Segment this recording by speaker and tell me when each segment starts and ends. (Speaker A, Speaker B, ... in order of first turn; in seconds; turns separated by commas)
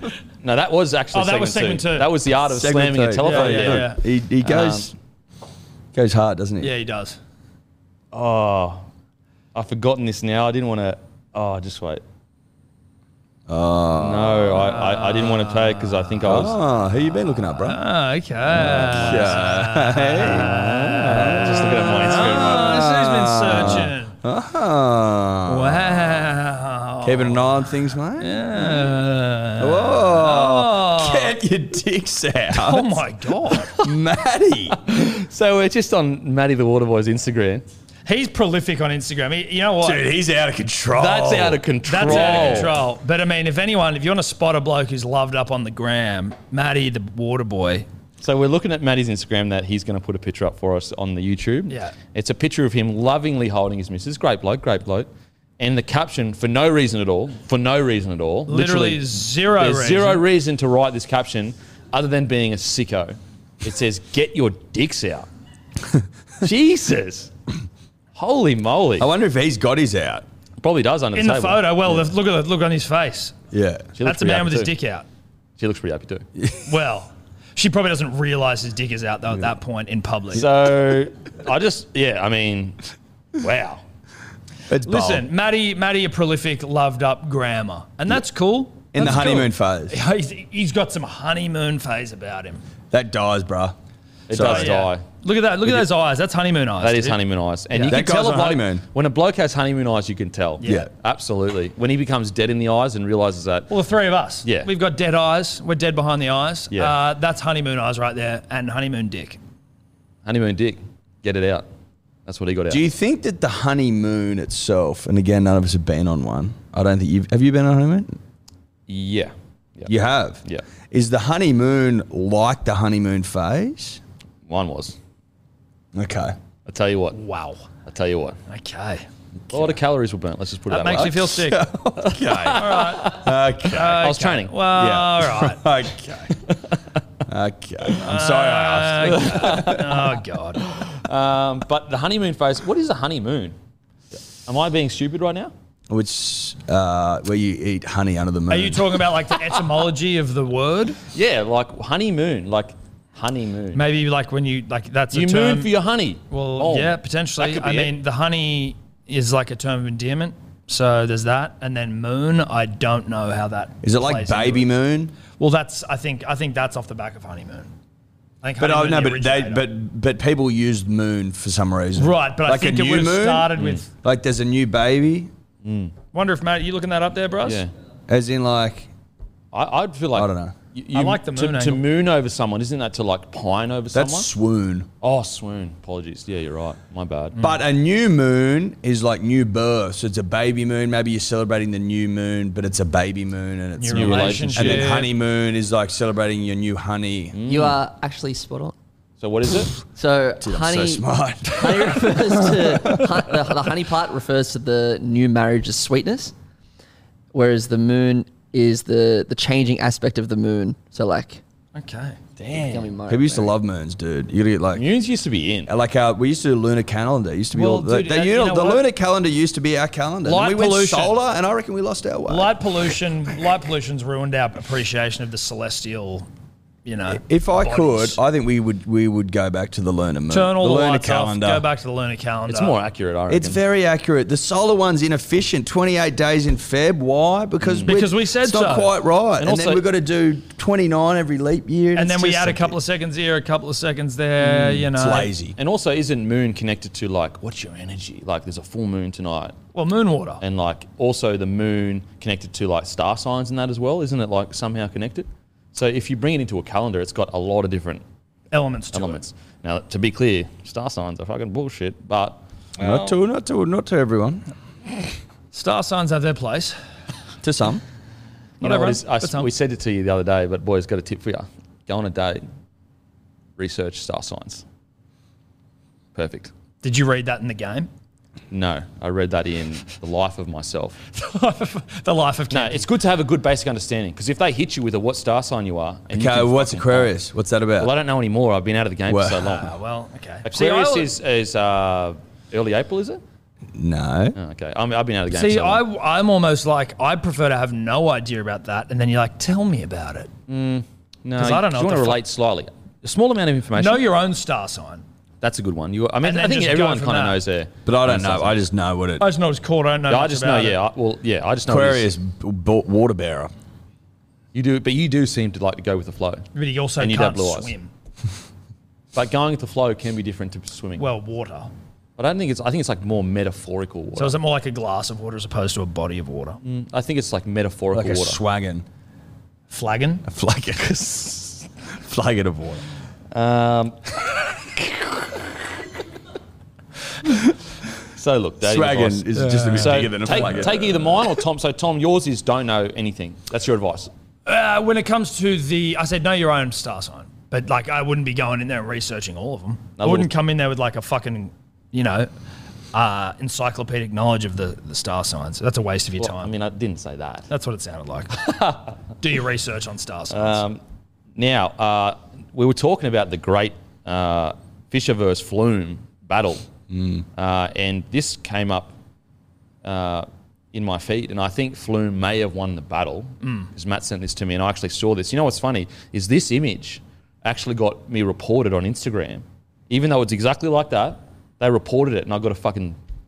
Speaker A: 0.4-3.9, Speaker B: 1.1-2.1, Speaker C: 2.4-4.9, Speaker B: 3.2-4.0, Speaker A: 4.4-4.9, Speaker C: 5.9-6.7, Speaker B: 6.6-7.2, Speaker A: 8.1-8.8, Speaker A: 9.5-12.0, Speaker C: 13.5-14.6, Speaker A: 14.0-16.6, Speaker B: 14.6-16.2, Speaker C: 16.2-17.8, Speaker B: 17.5-24.2, Speaker A: 18.5-19.5, Speaker C: 18.6-26.2, Speaker A: 20.2-22.8, Speaker B: 25.5-31.3, Speaker C: 27.0-28.4, Speaker C: 29.6-33.1, Speaker B: 32.5-33.8, Speaker C: 33.6-34.8, Speaker A: 34.7-37.6, Speaker B: 38.1-40.1, Speaker C: 39.8-42.8, Speaker A: 40.9-42.7, Speaker B: 41.9-47.9, Speaker A: 48.2-55.1, Speaker B: 51.7-52.0, Speaker A: 55.6-65.3, Speaker B: 58.5-60.2, Speaker A: 66.4-67.3, Speaker A: 68.2-69.1, Speaker C: 69.0-70.2, Speaker A: 70.6-71.8, Speaker B: 71.2-73.4, Speaker C: 73.5-73.9, Speaker A: 74.0-74.7, Speaker B: 74.0-75.1, Speaker A: 75.6-76.2, Speaker C: 76.4-76.6, Speaker B: 76.7-80.5, Speaker A: 80.3-82.8, Speaker A: 83.4-83.8, Speaker C: 84.7-85.3, Speaker B: 84.8-92.6, Speaker C: 88.9-90.0, Speaker C: 92.9-93.8, Speaker A: 94.3-95.0, Speaker C: 94.3-94.8, Speaker B: 94.3-98.1, Speaker A: 96.8-103.7, Speaker C: 97.9-98.8, Speaker B: 100.6-100.9, Speaker C: 100.6-100.9, Speaker B: 103.7-109.4, Speaker A: 104.4-104.7, Speaker A: 110.2-111.7, Speaker A: 112.3-112.9, Speaker C: 112.7-118.2, Speaker A: 118.9-119.9, Speaker C: 119.9-124.0, Speaker A: 124.5-125.0, Speaker C: 126.0-126.3, Speaker A: 126.7-127.2, Speaker B: 127.1-127.6, Speaker A: 127.9-128.4, Speaker B: 128.5-129.1, Speaker A: 129.5-131.4, Speaker B: 130.7-131.7, Speaker C: 131.2-134.0, Speaker A: 132.0-133.2, Speaker B: 132.5-135.6, Speaker A: 133.9-134.6, Speaker C: 134.7-136.3, Speaker A: 136.5-136.7, Speaker C: 137.3-140.0, Speaker B: 138.0-140.6, Speaker A: 139.1-139.9, Speaker A: 140.6-143.6, Speaker A: 144.5-145.5, Speaker C: 145.9-149.0, Speaker B: 148.5-151.0, Speaker A: 151.1-153.8, Speaker B: 153.7-155.7, Speaker A: 155.1-158.0, Speaker B: 156.3-164.7, Speaker C: 163.8-165.2, Speaker B: 165.4-167.7, Speaker B: 168.4-169.7, Speaker C: 168.6-175.3, Speaker B: 172.0-173.9, Speaker A: 173.6-173.8, Speaker A: 175.6-175.9, Speaker B: 176.1-177.7, Speaker A: 177.4-177.7, Speaker C: 178.1-178.9, Speaker A: 179.5-184.3, Speaker C: 180.1-180.6, Speaker B: 180.9-181.8, Speaker C: 183.9-184.9, Speaker A: 185.0-187.4, Speaker C: 187.4-197.5, Speaker B: 193.8-195.1, Speaker A: 193.9-195.0, Speaker A: 197.3-197.8, Speaker D: 197.5-198.7, Speaker A: 199.2-199.7, Speaker D: 199.9-206.3, Speaker C: 200.4-203.4, Speaker D: 207.3-211.4, Speaker B: 211.8-212.2, Speaker C: 212.5-214.9, Speaker D: 212.5-213.5, Speaker A: 214.8-215.7, Speaker C: 215.7-222.6, Speaker B: 217.5-218.8, Speaker B: 220.2-221.2, Speaker B: 222.3-226.3, Speaker B: 226.8-228.2, Speaker C: 227.1-231.7, Speaker B: 230.3-232.8, Speaker A: 232.5-233.6, Speaker C: 233.3-242.8, Speaker A: 237.6-238.0, Speaker B: 237.9-238.9, Speaker A: 239.4-239.8, Speaker B: 241.9-245.3, Speaker A: 244.4-244.8, Speaker C: 244.9-245.6, Speaker A: 245.6-249.6, Speaker B: 249.7-250.4, Speaker A: 250.4-258.0, Speaker B: 258.5-259.2, Speaker A: 258.9-263.2, Speaker C: 262.8-264.4, Speaker B: 265.5-266.8, Speaker C: 267.4-267.8, Speaker B: 268.6-269.5, Speaker A: 268.6-272.5, Speaker A: 273.6-274.6, Speaker A: 276.1-276.5, Speaker B: 276.8-277.9, Speaker A: 278.5-281.0, Speaker B: 281.1-282.9, Speaker A: 282.5-287.1, Speaker C: 286.1-287.9, Speaker A: 287.8-289.7, Speaker C: 289.1-289.6, Speaker B: 289.5-291.1, Speaker A: 290.4-293.2, Speaker C: 293.7-294.4, Speaker A: 294.4-295.8, Speaker B: 295.3-300.3, Speaker A: 300.5-304.1, Speaker B: 301.4-302.2, Speaker B: 303.7-305.0, Speaker A: 305.4-308.6, Speaker B: 306.2-307.4, Speaker C: 307.9-309.3, Speaker B: 309.2-310.8, Speaker A: 310.1-312.1, Speaker C: 311.7-313.5, Speaker A: 314.5-316.5, Speaker B: 316.6-317.9, Speaker A: 317.0-317.7, Speaker A: 319.1-321.1, Speaker B: 321.0-321.7, Speaker A: 322.2-324.4, Speaker B: 324.2-326.6, Speaker A: 326.6-328.4, Speaker C: 327.9-328.9, Speaker B: 329.7-330.2, Speaker C: 330.3-331.1, Speaker A: 330.9-331.6, Speaker C: 331.9-332.8, Speaker A: 333.3-334.0, Speaker A: 338.2-344.1, Speaker C: 338.6-341.3, Speaker B: 339.4-340.7, Speaker B: 344.5-352.3, Speaker A: 350.0-350.3, Speaker B: 352.9-356.5, Speaker A: 356.2-357.5, Speaker B: 357.5-358.6, Speaker A: 358.4-358.9, Speaker B: 359.2-360.6, Speaker A: 360.3-360.8, Speaker A: 361.4-366.6, Speaker C: 366.9-367.2, Speaker A: 367.4-368.9, Speaker A: 369.8-383.0, Speaker B: 373.4-373.7